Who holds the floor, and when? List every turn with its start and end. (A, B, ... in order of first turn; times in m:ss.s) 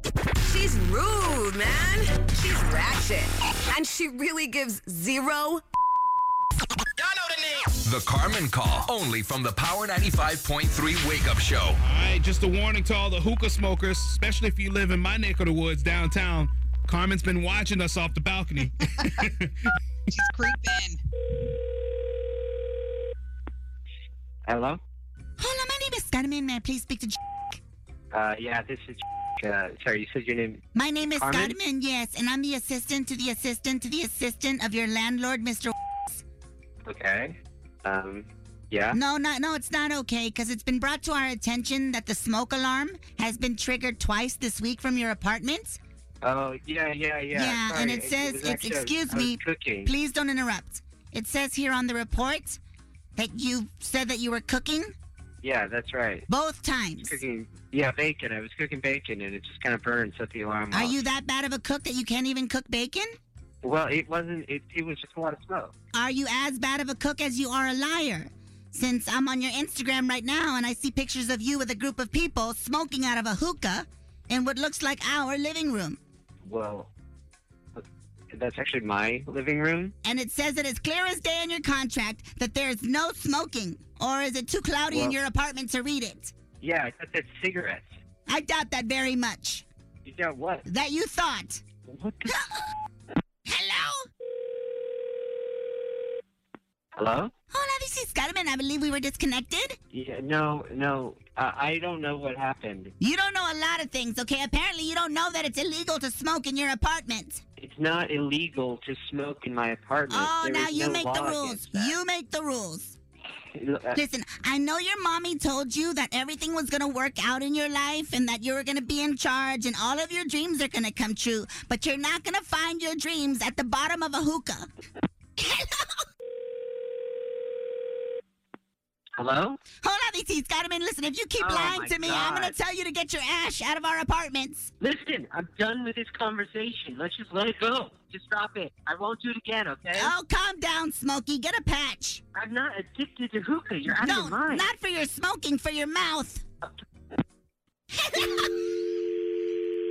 0:00.4-0:05.6 A
0:07.7-0:11.8 B
0:11.9-0:19.1 C
0:20.2-0:21.0 A
0:24.4-0:24.8 D
0:25.4-0:27.6 E
0:28.1-0:31.6 D
0:30.7-0:36.2 E
0:36.8-0:39.0 D
0:38.9-0:45.8 E
0:46.2-0:49.9 D
0:47.3-0:52.6 E
0:53.2-0:54.9 E
0:55.4-0:56.2 D
0:56.3-0:57.1 E
0:57.0-1:01.0 D
1:00.7-1:03.1 E
1:03.6-1:05.7 D
1:05.9-1:16.0 E
1:16.4-1:16.9 D
1:17.7-1:19.9 D
1:20.0-1:26.3 E
1:24.9-1:25.2 D
1:26.6-1:27.9 D
1:28.3-1:29.6 E
1:30.0-1:30.6 D
1:30.6-1:31.6 E
1:31.9-1:32.4 D
1:32.3-1:32.6 E
1:33.5-1:34.1 E
1:37.0-1:37.3 D
1:37.5-1:39.8 E
1:39.9-1:42.9 D
1:43.0-1:47.4 E
1:47.6-1:52.0 D
1:50.1-1:53.0 E
1:53.5-1:54.0 D
1:53.9-2:04.7 E
2:05.4-2:06.0 E
2:09.2-2:09.6 D
2:09.8-2:14.7 E
2:11.4-2:12.6 D
2:14.8-2:20.1 D
2:19.9-2:22.2 E
2:22.3-2:24.6 D
2:23.9-2:26.4 E
2:28.0-2:28.5 E